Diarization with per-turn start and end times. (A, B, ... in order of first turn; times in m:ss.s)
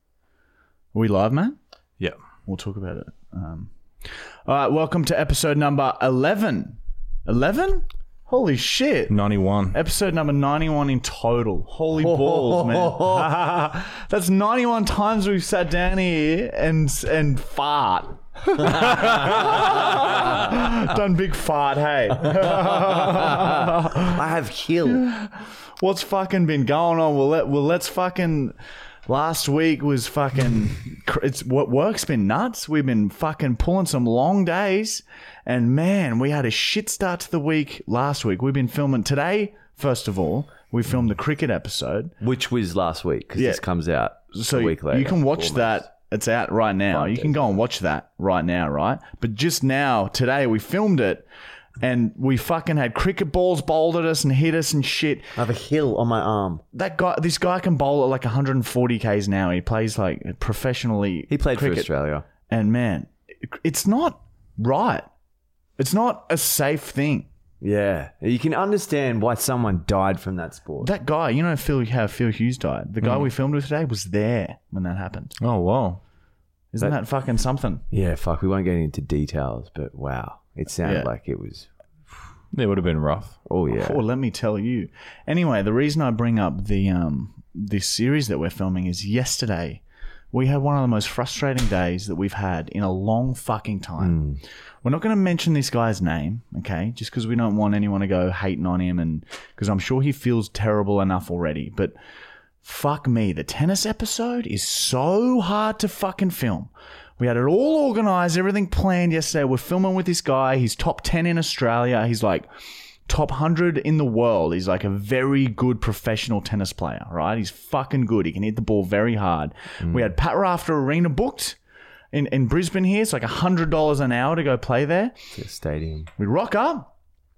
0:00.9-0:01.6 A
0:02.5-0:09.2 A
0:09.1-0:09.8 B
0:09.7-0:24.2 A
0:12.0-0:13.4 C
0:19.4-0:20.2 C
0:22.2-0:25.0 C
0:24.9-0:28.5 A
0:29.1-0:42.1 A
0:42.2-0:45.8 C
0:43.4-0:43.6 A
0:44.3-0:51.2 A
0:46.9-0:47.3 C
0:51.8-0:55.3 A
0:55.4-0:56.6 C
0:56.7-1:01.9 A
1:01.3-1:02.2 C
1:02.5-1:05.1 A
1:05.8-1:07.3 A
1:07.6-1:10.9 C
1:10.8-1:15.3 A
1:15.4-1:16.0 B
1:16.7-1:17.8 A
1:17.9-1:21.7 C
1:20.8-1:21.1 A
1:22.5-1:23.4 B
1:23.5-1:24.0 C
1:23.7-1:34.2 A
1:34.0-1:34.4 C
1:34.8-1:42.0 A
1:42.6-1:52.5 A
1:53.1-2:01.6 A
2:02.1-2:05.1 A
2:05.3-2:06.1 C
2:06.2-2:06.9 A